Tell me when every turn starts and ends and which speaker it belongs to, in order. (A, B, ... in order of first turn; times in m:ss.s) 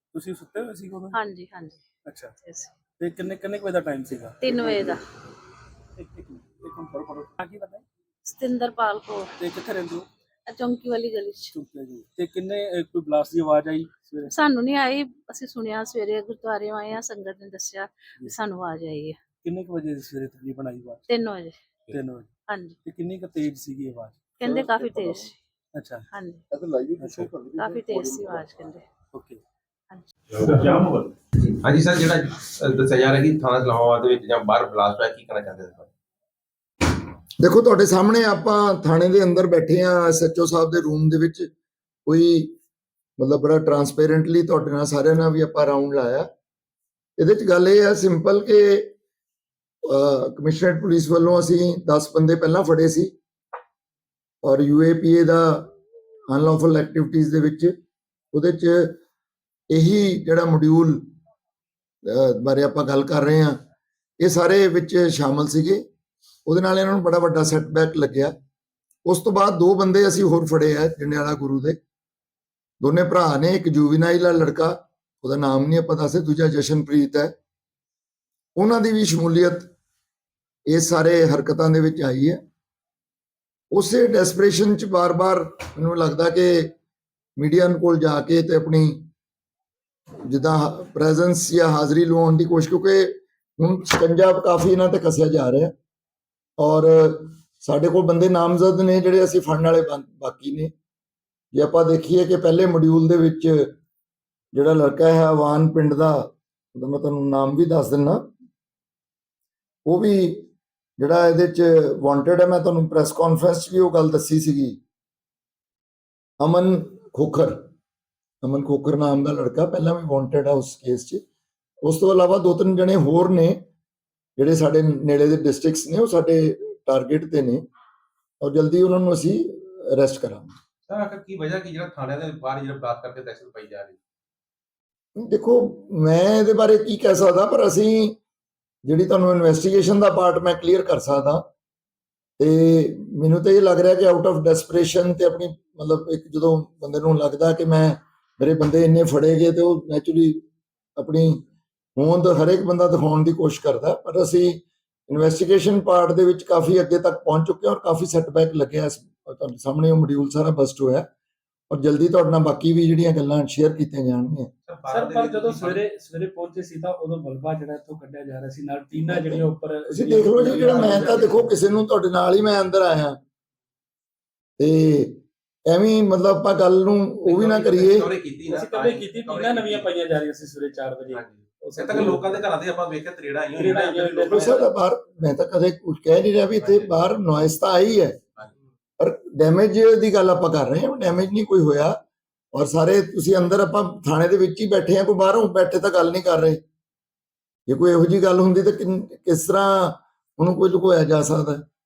0:00.1-0:01.2 A
0:01.2-0:01.8 B
0:02.0-0:02.3 A
0:02.4-0:02.7 B
0:03.0-0:04.9 A
0:04.4-0:05.0 B
0:06.0-0:07.8 A
0:08.2-0:09.3 B
0:09.4-0:10.0 A
0:10.5-0:11.5 B
0:11.5-0:14.3 A
0:14.3-0:19.2 B
0:19.4-0:21.1 A
0:21.1-0:21.6 B
0:21.9-0:22.3 A
0:22.5-0:22.8 B
0:22.8-0:24.4 A
0:24.4-0:25.4 B
0:24.4-0:25.3 C
0:25.7-0:26.0 A
0:26.1-0:26.4 B
0:26.5-0:28.6 C
0:27.0-0:27.3 A
0:27.6-0:28.8 B
0:29.1-0:29.4 A
0:30.3-0:35.9 C
0:37.4-0:41.5 D
0:42.0-0:42.6 D
0:43.2-0:46.3 D
0:47.2-0:48.9 D
0:49.8-0:53.1 D
0:54.4-0:55.7 D
0:56.3-0:57.8 D
0:58.3-0:59.0 D
0:59.7-1:01.1 D
1:02.0-1:03.6 D
1:04.2-1:05.8 D
1:06.4-1:08.3 D
1:09.0-1:11.8 D
1:12.8-1:17.3 D
1:18.6-1:19.7 D
1:20.7-1:22.4 D
1:23.7-1:26.7 D
1:27.4-1:29.1 D
1:30.2-1:35.7 D
1:36.6-1:40.7 D
1:41.5-1:43.7 D
1:44.5-1:48.2 D
1:49.8-1:50.5 D
1:51.0-1:54.8 D
1:56.4-1:57.6 D
1:58.4-2:01.2 D
2:01.8-2:03.6 D
2:04.4-2:07.6 D
2:08.4-2:10.5 D
2:10.9-2:14.0 C
2:15.2-2:18.2 D
2:18.8-2:21.5 D
2:22.4-2:30.4 D
2:31.0-2:31.4 D
2:32.0-2:41.1 D
2:41.7-2:44.5 D
2:44.7-2:45.8 C
2:44.9-2:51.5 A
2:49.0-2:53.2 D
2:50.6-2:51.2 C
2:54.6-2:58.1 D
2:57.2-2:59.9 C
2:58.5-3:02.4 A
3:01.1-3:04.6 C
3:03.5-3:04.7 A
3:04.3-3:08.2 D
3:06.6-3:06.9 C
3:09.0-3:12.0 D
3:12.5-3:16.6 D
3:17.7-3:21.6 D